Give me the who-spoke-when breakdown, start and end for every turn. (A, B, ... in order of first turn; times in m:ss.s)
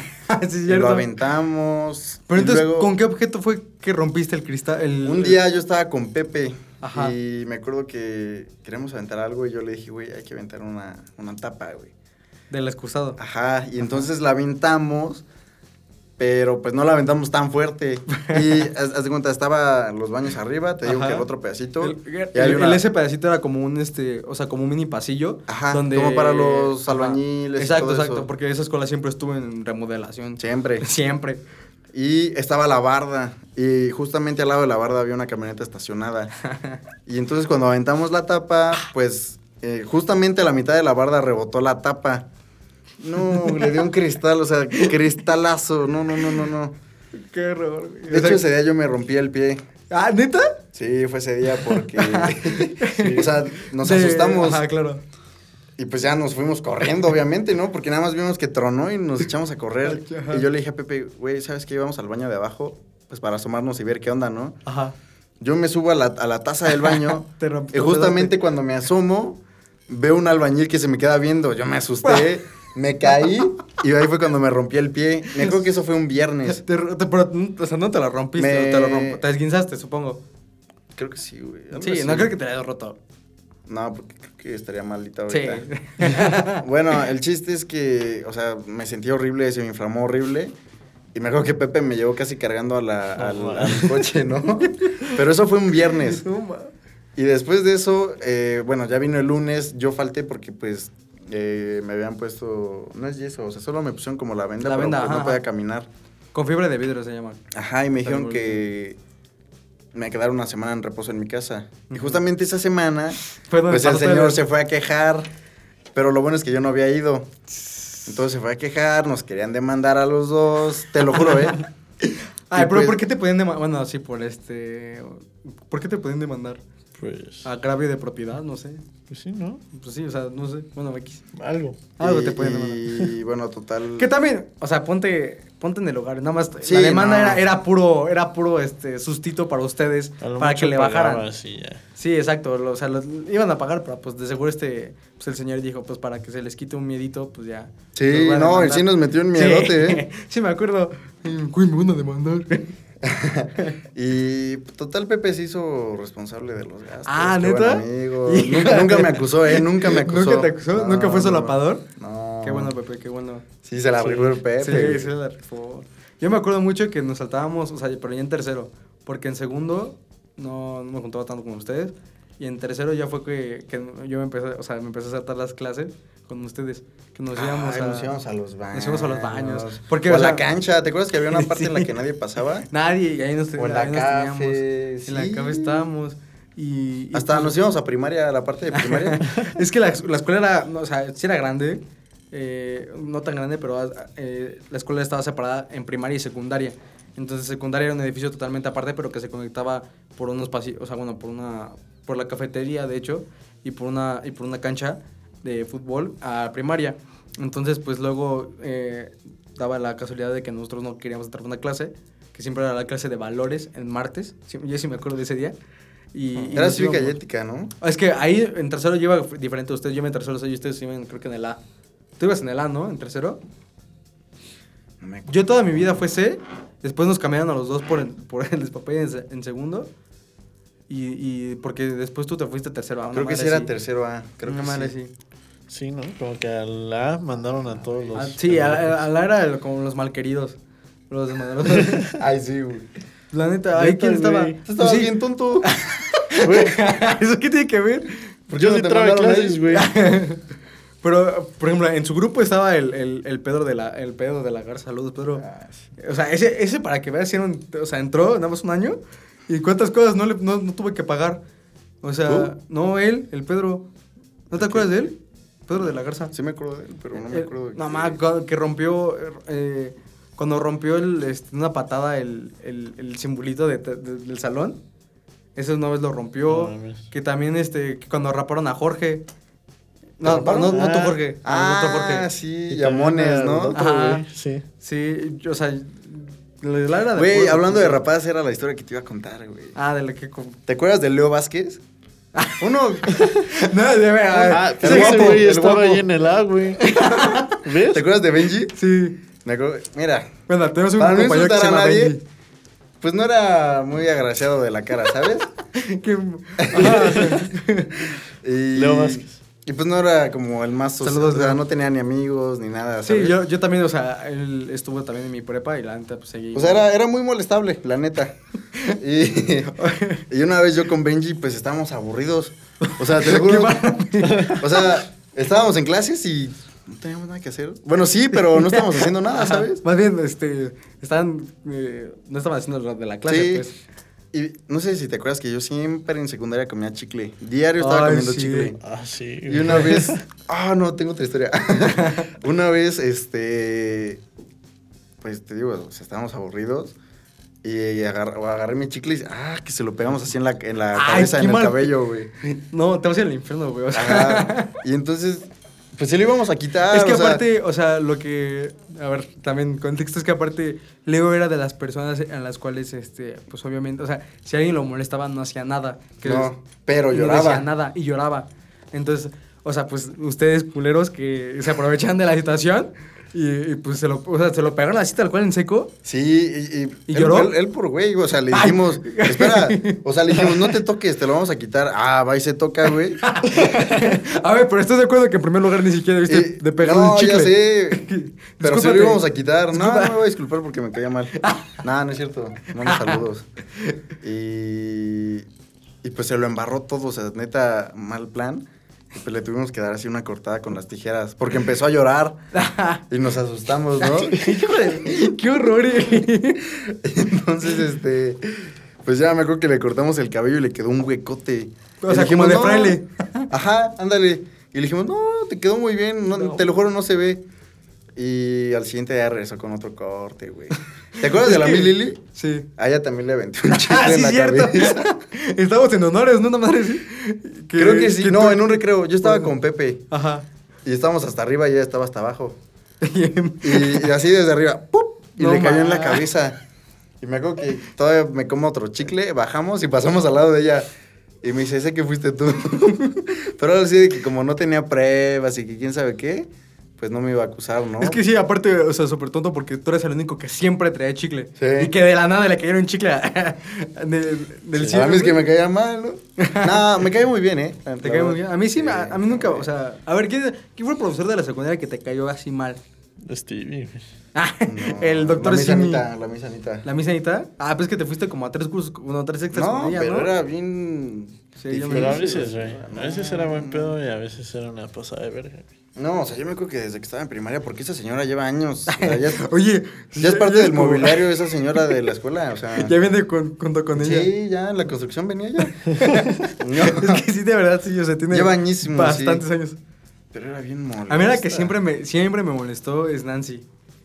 0:00.1-0:01.1 A
0:00.7-0:02.9 B
0:02.3-0:05.4 A
0:05.0-0:11.9 B
0:06.8-0:07.2 A
0:12.5-0:13.2 A
0:13.2-0:15.2 B
0:16.2-0:22.8 B
0:18.1-0:18.6 A
0:20.8-0:21.3 A
0:21.8-0:31.4 A
0:25.5-0:28.3 B
0:30.4-0:30.9 B
0:31.9-0:36.3 B
0:36.5-0:36.8 A
0:37.1-0:42.3 B
0:43.0-0:46.8 B
0:43.2-0:43.7 A
0:47.2-0:48.4 A
0:48.1-0:49.6 B
0:49.9-0:50.6 A
0:50.7-0:54.6 B
0:51.6-0:55.0 A
0:53.0-0:53.3 C
0:55.8-1:04.6 B
0:59.8-1:00.5 A
1:04.6-1:05.0 A
1:05.4-1:16.6 B
1:06.8-1:08.4 A
1:12.0-1:12.3 A
1:16.5-1:20.2 A
1:18.4-1:19.2 B
1:21.0-1:22.3 B
1:21.7-1:23.0 A
1:23.7-1:30.5 B
1:25.3-1:26.6 A
1:31.1-1:36.2 B
1:33.2-1:34.0 C
1:34.6-1:35.1 A
1:35.8-1:36.7 A
1:37.2-1:45.9 B
1:44.6-1:45.4 A
1:46.3-1:47.4 A
1:47.5-1:49.0 B
1:48.0-1:48.6 A
1:49.9-1:53.2 B
1:51.9-1:52.2 A
1:53.4-1:54.4 A
1:53.7-1:55.3 B
1:55.9-1:57.3 B
1:57.6-1:58.0 A
1:58.1-2:01.6 B
2:01.1-2:06.6 A
2:02.5-2:03.0 B
2:07.0-2:07.5 C
2:07.4-2:08.8 A
2:09.1-2:09.6 C
2:09.7-2:11.2 A
2:11.4-2:11.8 C
2:12.0-2:13.0 A
2:12.0-2:14.1 B
2:14.0-2:21.2 A
2:16.6-2:17.4 B
2:20.2-2:21.8 C
2:22.0-2:32.7 A
2:28.0-2:30.0 B
2:33.0-2:42.7 B
2:37.1-2:41.9 A
2:42.4-2:43.4 A
2:43.6-2:45.1 B
2:44.0-2:44.4 C
2:44.6-2:58.1 A
2:57.3-3:02.7 B
2:58.7-3:00.4 A
3:01.3-3:02.0 A
3:02.7-3:07.6 A
3:03.6-3:05.9 B
3:07.1-3:09.3 B
3:08.7-3:35.6 A
3:36.1-3:37.2 A
3:36.4-3:37.7 B
3:37.8-3:41.6 A
3:42.2-3:43.4 A
3:45.0-3:46.0 B
3:45.3-3:49.9 A
3:50.9-3:53.7 A
3:53.1-3:54.9 B
3:54.4-3:55.1 A
3:55.7-3:59.0 C
3:58.2-4:00.6 A
4:01.1-4:02.2 A
4:02.2-4:02.9 B
4:03.3-4:08.3 A
4:03.8-4:04.6 C
4:04.6-4:05.7 B
4:06.4-4:06.8 C
4:08.5-4:09.6 B
4:08.5-4:09.9 C
4:09.7-4:10.4 A
4:11.0-4:15.4 A
4:15.4-4:15.9 B
4:16.0-4:21.4 A
4:22.0-4:23.9 A
4:22.3-4:22.5 B
4:24.5-4:26.3 A
4:24.5-4:25.0 B
4:26.3-4:28.2 B
4:27.2-4:34.8 A
4:35.6-4:39.2 A
4:36.5-4:37.0 C
4:40.2-4:42.3 A
4:40.2-4:40.9 B
4:40.7-4:41.2 C
4:41.4-4:43.8 B
4:42.7-4:44.6 C
4:43.8-4:44.2 A
4:44.8-4:48.0 A
4:47.2-4:49.8 B
4:49.8-4:50.6 A
4:50.7-4:51.8 B
4:52.4-4:52.6 A
4:52.6-4:53.3 B
4:53.2-4:55.5 A
4:54.3-4:56.0 B
4:54.5-4:57.0 C
4:56.8-4:57.6 A
4:57.0-4:58.7 B
4:57.6-4:58.0 C
4:58.7-4:59.2 A
4:59.4-5:00.3 B
5:00.5-5:02.2 A
5:01.0-5:02.2 B
5:03.0-5:05.5 B
5:05.7-5:08.2 A
5:06.6-5:07.3 B
5:06.8-5:07.4 C
5:08.4-5:13.4 B
5:08.8-5:09.4 C
5:11.0-5:11.6 A
5:13.0-5:16.8 A
5:16.5-5:18.4 B
5:18.9-5:29.8 B
5:19.8-5:20.2 A
5:22.8-5:25.0 A
5:24.3-5:24.5 C
5:28.4-5:33.8 A
5:33.3-5:33.7 B
5:34.3-5:38.8 B
5:37.8-5:38.7 A
5:38.8-5:40.2 C
5:39.5-5:44.2 B
5:41.9-5:42.3 A
5:45.2-5:47.0 B
5:47.6-5:52.3 B
5:50.9-5:54.8 A
5:53.9-5:57.4 B
5:56.9-6:06.5 A
6:06.2-6:07.7 B
6:07.1-6:15.9 A
6:16.0-6:23.4 B
6:17.1-6:17.5 A
6:18.5-6:20.7 A
6:23.2-6:30.2 A
6:26.3-6:28.1 B
6:28.6-6:33.5 B
6:31.4-6:31.8 A
6:32.8-6:33.2 A
6:34.2-6:35.5 B
6:36.0-6:42.4 B
6:42.5-6:43.0 A
6:43.1-6:45.6 B
6:44.0-6:46.7 A
6:46.8-6:53.0 B
6:52.0-6:53.5 A
6:53.5-6:57.4 B
6:56.4-6:56.6 A
6:58.2-7:02.2 B
7:01.2-7:02.7 A
7:02.8-7:05.1 B
7:03.7-7:09.5 A
7:07.8-7:10.0 B
7:10.1-7:10.4 A
7:10.8-7:12.6 B
7:13.0-7:14.1 A
7:13.6-7:16.6 B
7:15.4-7:16.3 A
7:17.2-7:20.9 B
7:21.4-7:28.2 B
7:28.0-7:35.4 A
7:31.6-7:31.9 B
7:34.8-7:39.7 B
7:36.4-7:37.0 A
7:38.0-7:42.8 A
7:43.2-7:44.1 C
7:44.4-7:46.0 A
7:44.7-7:46.8 B
7:46.8-7:50.3 A
7:49.5-7:54.0 B
7:51.6-7:52.5 A
7:51.9-7:55.7 C
7:56.0-7:59.5 B
7:58.9-8:01.9 A
8:00.2-8:03.0 B
8:02.8-8:04.3 A
8:04.0-8:06.0 B
8:05.9-8:09.8 A
8:06.6-8:07.2 B
8:08.3-8:09.4 B
8:10.3-8:11.7 B
8:11.1-8:13.6 A